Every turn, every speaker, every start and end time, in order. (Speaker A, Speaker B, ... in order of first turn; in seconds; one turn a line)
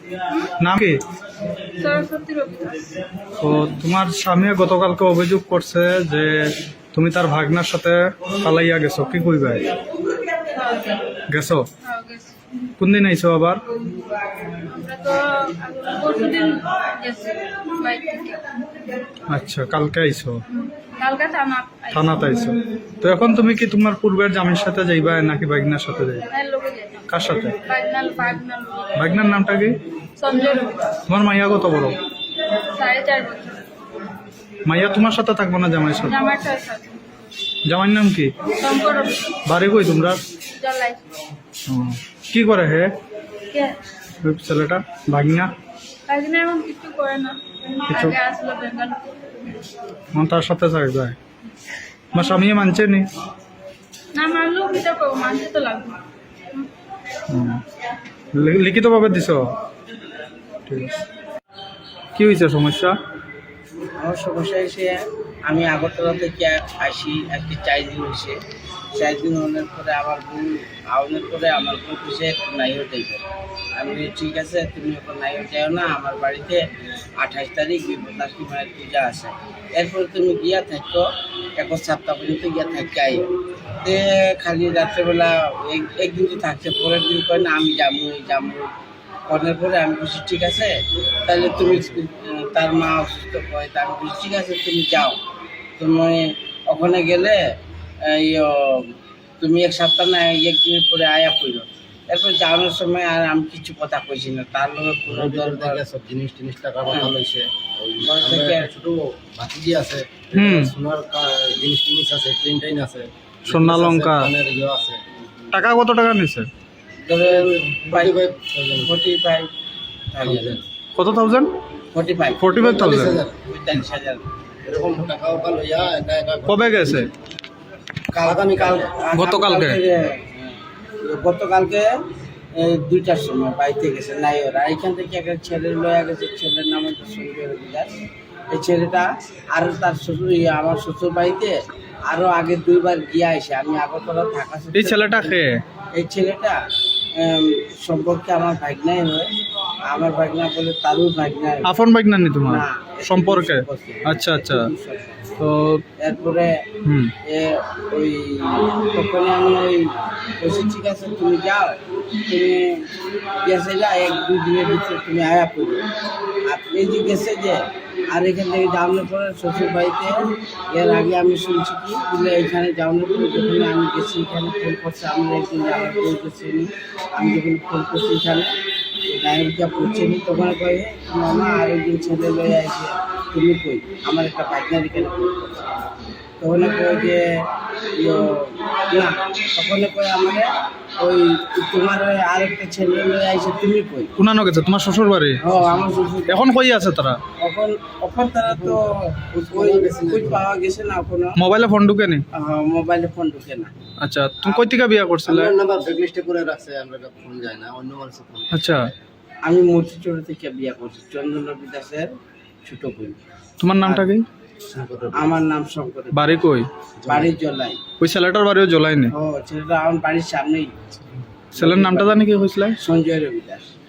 Speaker A: 0.6-1.0
Speaker B: 1.8-2.9
Speaker A: 3.4-9.7
Speaker B: 10.5-11.0
Speaker A: 11.3-11.7
Speaker B: 11.8-12.3
Speaker A: 12.8-13.6
Speaker B: 14.5-18.4
Speaker A: 19.3-20.4
Speaker B: 20.5-22.2
Speaker A: 21.9-26.2
Speaker B: 26.3-27.1
Speaker A: 27.1-27.6
Speaker B: 27.6-29.0
Speaker A: 28.9-29.8
Speaker B: 30.2-31.0
Speaker A: 31.1-32.0
Speaker B: 32.6-33.6
Speaker A: 34.6-36.2
Speaker B: 36.0-37.0
Speaker A: 37.6-38.3
Speaker B: 38.5-39.4
Speaker A: 39.4-40.2
Speaker B: 40.6-41.0
Speaker A: 41.7-42.9
Speaker B: 43.5-43.8
Speaker A: 44.2-45.5
Speaker B: 46.1-47.4
Speaker A: 47.9-48.2
Speaker B: 47.9-49.1
Speaker A: 50.1-51.2
Speaker A: 52.1-53.1
Speaker B: 54.1-56.0
Speaker A: 57.3-57.6
Speaker A: 58.3-59.5
Speaker A: 60.6-61.0
Speaker A: 62.1-63.0
Speaker C: 64.0-68.4
Speaker C: 69.0-73.2
Speaker C: 73.8-76.6
Speaker C: 77.2-81.1
Speaker C: 81.6-83.3
Speaker C: 83.8-88.7
Speaker C: 89.3-90.7
Speaker C: 91.3-95.2
Speaker C: 95.8-97.4
Speaker C: 98.0-105.8
Speaker D: 105.1-115.0
Speaker C: 106.9-107.1
Speaker C: 108.0-108.7
Speaker A: 110.3-110.7
Speaker A: 113.5-114.3
Speaker A: 115.5-116.5
Speaker C: 117.0-118.2
Speaker D: 117.7-118.9
Speaker C: 118.8-119.5
Speaker C: 120.1-120.6
Speaker D: 120.2-120.6
Speaker A: 121.0-121.5
Speaker C: 121.9-122.6
Speaker A: 122.4-123.2
Speaker D: 122.5-123.4
Speaker C: 123.4-124.2
Speaker D: 124.6-127.1
Speaker A: 126.5-127.1
Speaker C: 128.1-131.9
Speaker D: 128.2-128.9
Speaker A: 129.1-129.8
Speaker C: 132.5-137.9
Speaker C: 138.5-141.5
Speaker C: 142.1-145.4
Speaker A: 144.7-145.6
Speaker C: 145.9-146.6
Speaker C: 147.2-149.3
Speaker C: 149.8-151.7
Speaker A: 151.6-154.7
Speaker C: 152.4-155.3
Speaker A: 155.4-155.8
Speaker C: 156.0-156.7
Speaker A: 156.8-157.1
Speaker C: 157.2-162.9
Speaker C: 163.4-165.8
Speaker C: 166.5-167.6
Speaker C: 168.1-178.5
Speaker C: 179.1-185.7
Speaker C: 186.4-187.4
Speaker C: 188.0-190.5
Speaker C: 191.0-194.1
Speaker A: 194.2-195.4
Speaker C: 195.4-196.5
Speaker A: 196.3-197.2
Speaker C: 197.4-201.4
Speaker D: 198.5-198.8
Speaker D: 199.5-200.5
Speaker A: 201.4-202.2
Speaker C: 202.3-203.7
Speaker A: 204.0-205.5
Speaker C: 204.4-204.7
Speaker D: 205.3-208.6
Speaker A: 208.5-208.9
Speaker C: 209.4-212.1
Speaker C: 212.7-213.2
Speaker A: 213.6-214.2
Speaker D: 214.6-215.4
Speaker C: 215.1-216.5
Speaker A: 216.1-216.7
Speaker D: 217.0-217.3
Speaker C: 217.1-217.8
Speaker A: 218.0-219.1
Speaker C: 219.1-220.7
Speaker A: 221.5-222.8
Speaker C: 221.6-222.2
Speaker C: 222.8-223.7